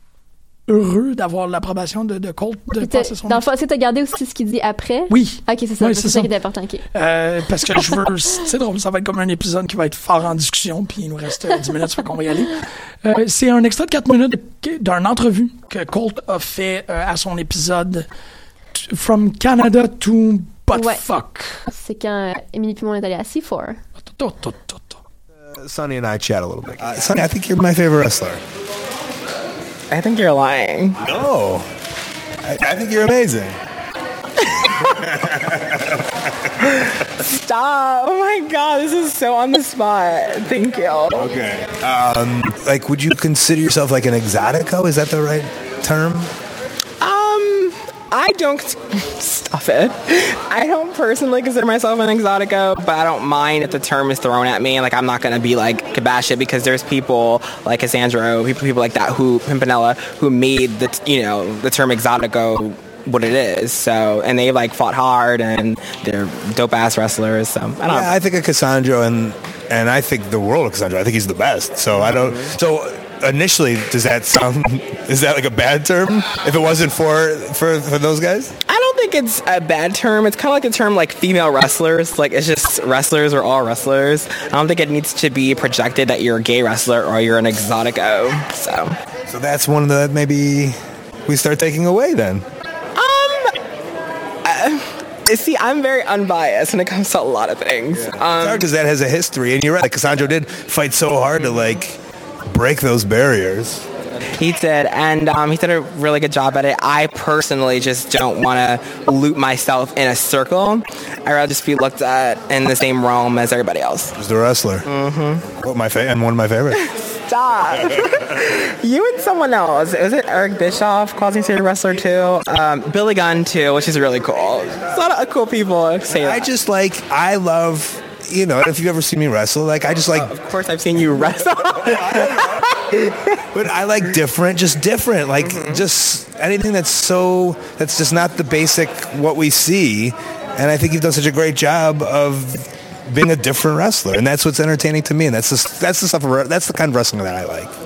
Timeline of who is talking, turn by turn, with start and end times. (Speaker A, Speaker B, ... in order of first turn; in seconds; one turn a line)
Speaker A: 0.7-3.4
Speaker B: 2.8-6.8
Speaker A: 5.1-6.3
Speaker A: 6.9-18.1
Speaker A: 18.7-21.7
Speaker B: 20.7-21.0
Speaker B: 21.7-23.8
Speaker A: 24.0-25.0
Speaker C: 25.5-28.4
Speaker D: 29.9-31.0
Speaker C: 31.0-31.7
Speaker C: 32.5-33.6
Speaker C: 35.2-35.8
Speaker D: 37.2-41.2
Speaker C: 41.2-46.3
Speaker D: 47.0-68.1
Speaker C: 67.9-78.5
Speaker D: 78.7-88.9
Speaker C: 89.3-90.8
Speaker C: 91.3-92.5
Speaker D: 92.9-93.5
Speaker D: 94.4-98.6
Speaker C: 98.4-103.9
Speaker D: 104.4-114.1
Speaker C: 114.1-114.8
Speaker D: 114.8-115.5
Speaker C: 115.5-116.8
Speaker D: 116.8-126.5
Speaker C: 126.1-130.3
Speaker D: 130.1-133.1
Speaker C: 133.5-147.7
Speaker D: 135.4-135.8